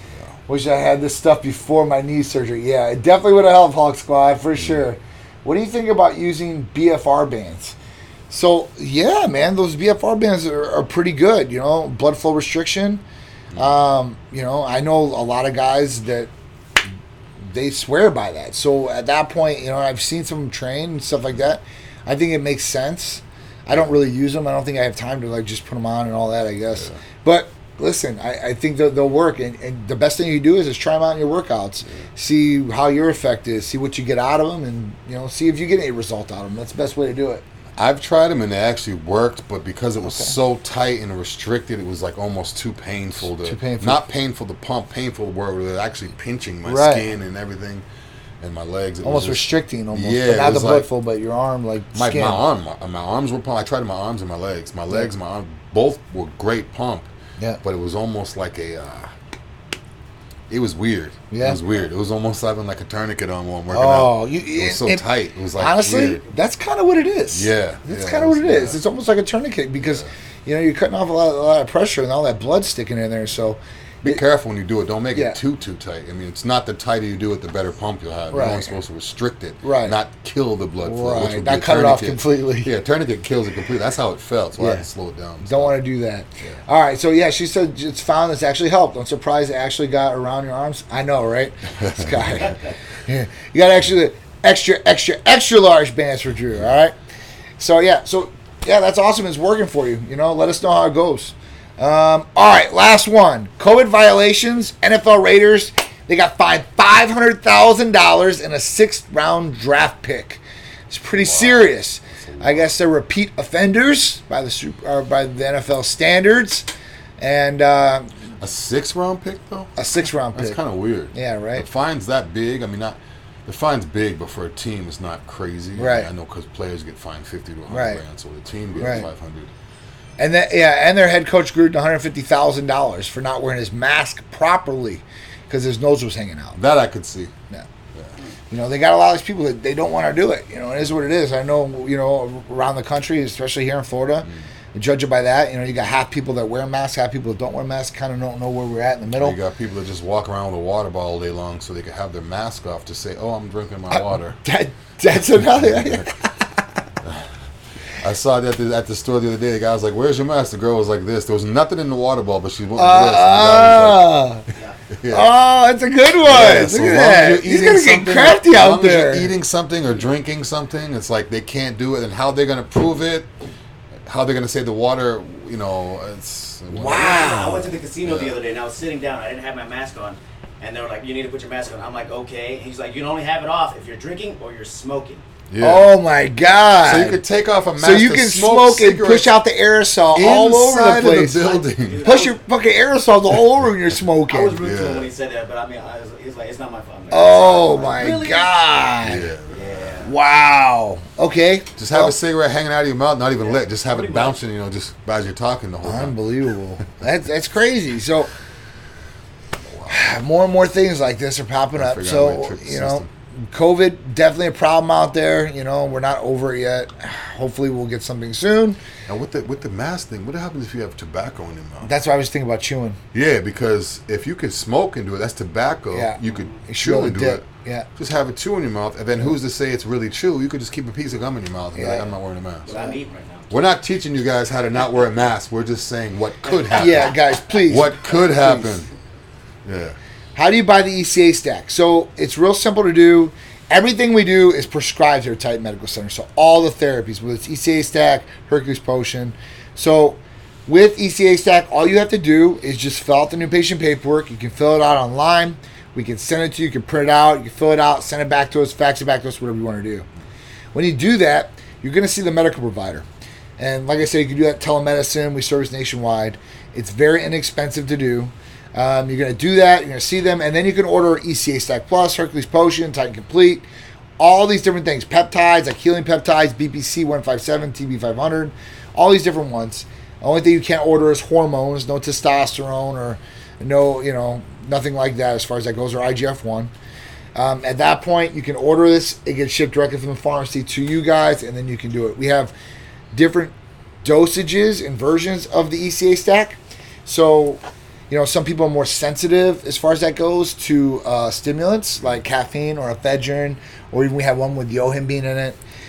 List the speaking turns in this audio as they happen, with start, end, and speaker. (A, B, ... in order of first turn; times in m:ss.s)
0:00.5-0:07.8 A
0:08.3-0:13.0 A
0:13.5-0:13.8 B
0:13.6-0:16.3 A
0:17.4-0:37.4 A
0:23.7-0:24.0 B
0:37.8-0:47.8 B
0:40.1-0:40.4 A
0:43.4-0:44.0 A
0:46.6-0:47.1 A
0:48.4-0:50.9 B
0:49.0-0:52.4 A
0:51.9-0:57.1 B
0:57.6-0:59.1 B
1:00.5-1:06.2 B
1:01.3-1:01.6 A
1:03.7-1:05.1 A
1:05.6-1:14.2 A
1:07.3-1:08.8 B
1:09.8-1:10.1 B
1:14.0-1:25.8 B
1:18.3-1:18.7 A
1:19.6-1:20.0 A
1:20.8-1:22.7 A
1:24.6-1:24.9 A
1:25.4-1:37.0 A
1:31.8-1:32.5 B
1:37.6-1:56.7 A
1:51.2-1:52.7 B
1:57.2-1:58.1 A
1:58.4-1:59.8 B
1:59.8-2:00.6 A
2:00.3-2:09.5 B
2:01.1-2:01.7 A
2:05.8-2:06.1 A
2:07.7-2:08.0 A
2:08.8-2:09.1 A
2:10.2-2:16.6 A
2:16.6-2:17.3 B
2:18.5-2:29.4 A
2:29.2-2:34.4 B
2:33.9-2:36.6 A
2:35.6-2:36.0 B
2:37.0-2:37.3 B
2:38.0-2:44.3 B
2:42.8-2:44.5 A
2:44.9-2:45.3 B
2:45.1-2:49.3 A
2:46.2-2:53.3 B
2:54.1-2:57.4 B
2:56.7-2:57.7 A
2:56.9-3:05.2 C
2:58.0-2:58.4 B
3:05.5-3:05.9 B
3:05.6-3:07.2 A
3:06.8-3:09.4 B
3:07.8-3:14.6 A
3:10.1-3:12.1 B
3:11.7-3:12.4 C
3:14.3-3:18.9 C
3:14.6-3:15.1 B
3:17.1-3:19.3 A
3:19.0-3:20.1 B
3:19.5-3:20.1 C
3:20.0-3:22.1 A
3:21.8-3:26.2 B
3:23.4-3:24.4 C
3:25.8-3:28.3 A
3:29.6-3:30.0 B
3:29.9-3:38.8 A
3:31.8-3:33.1 B
3:39.1-3:41.9 B
3:41.8-3:43.0 A
3:43.1-3:47.4 B
3:45.9-3:47.9 A
3:46.2-3:46.6 C
3:48.0-3:52.7 B
3:51.8-3:52.1 A
3:52.7-3:53.5 C
3:52.7-3:53.0 A
3:53.5-3:58.9 B
3:56.4-3:57.1 C
3:56.8-3:58.8 A
3:59.6-4:00.0 B
4:00.4-4:20.1 A
4:20.7-4:23.0 A
4:23.6-4:33.7 A
4:34.2-4:46.7 A
4:47.4-4:52.5 A
4:53.1-5:05.6 A